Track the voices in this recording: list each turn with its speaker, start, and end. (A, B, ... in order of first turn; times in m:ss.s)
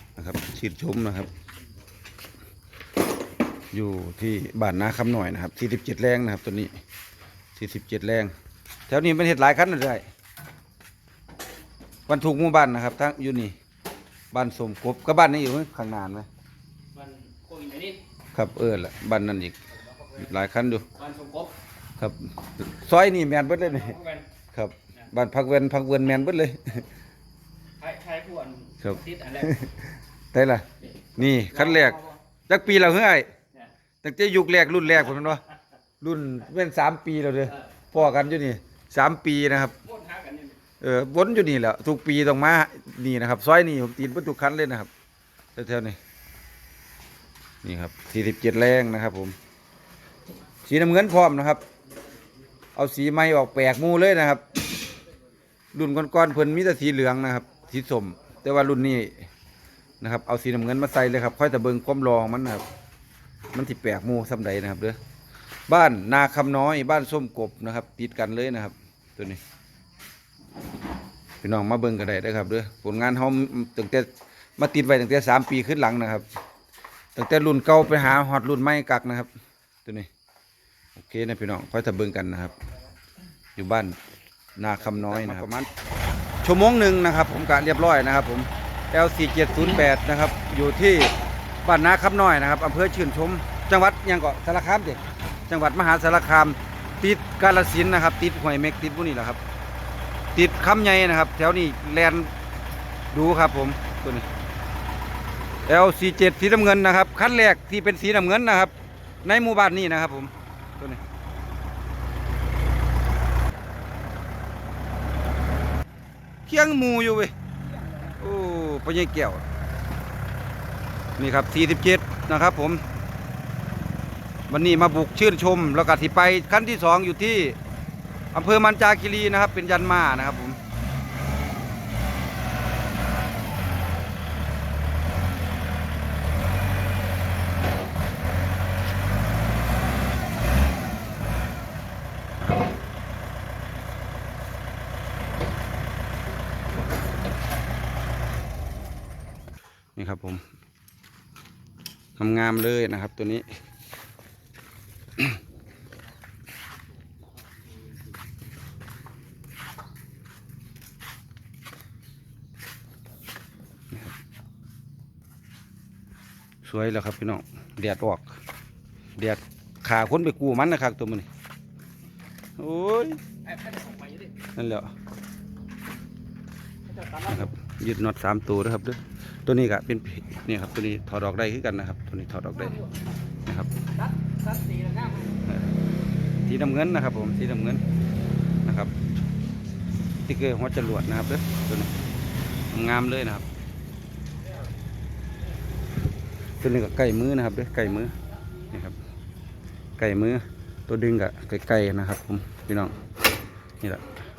0:00.2-0:01.3 A
0:03.7-0:06.8 A
0:07.5-0:08.3 A
0:08.9-0:10.0 A
0:12.1-0:13.5 A
0:14.3-0:16.3 A
0:16.9-0:18.0 B
0:18.3-0:19.6 A
0:20.1-0:20.9 A
0:20.9-0:21.5 B
0:22.0-0:24.0 A
0:23.8-0:24.2 B
0:24.5-0:26.8 A
0:27.8-0:29.5 B
0:28.8-0:33.3 A
0:31.5-0:32.0 B
0:34.0-0:35.4 A
0:36.0-0:39.8 A
0:39.8-0:40.5 B
0:40.8-0:44.9 A
0:45.6-0:46.0 A
0:47.6-0:49.4 A
0:50.6-0:51.6 A
0:52.8-0:54.4 A
0:55.7-0:59.3 A
1:00.0-1:02.6 A
1:03.5-1:05.0 A
1:05.7-1:09.4 A
1:11.4-1:16.2 A
1:17.1-1:19.3 A
1:19.8-1:20.1 A
1:21.0-1:22.6 A
1:23.6-1:24.0 A
1:24.6-1:25.7 A
1:26.4-1:39.4 A
1:40.3-1:42.3 A
1:43.1-1:44.3 A
1:45.7-1:51.0 A
1:56.5-1:57.3 A
1:58.0-1:59.4 A
2:01.2-2:02.8 A
2:04.5-2:07.6 A
2:08.3-2:10.6 A
2:30.0-2:30.4 A
2:32.2-2:33.5 A
2:46.6-2:48.4 A
2:49.2-2:51.3 A
2:52.6-2:53.2 A
2:53.5-2:54.3 B
2:54.5-2:54.9 A
2:57.1-3:02.8 A
3:03.4-3:03.7 A
3:04.3-3:05.3 B
3:06.4-3:07.8 A
3:08.6-3:08.9 A
3:10.2-3:11.9 A
3:12.7-3:13.5 A
3:16.6-3:19.0 A
3:20.0-3:22.9 A
3:23.8-3:24.1 A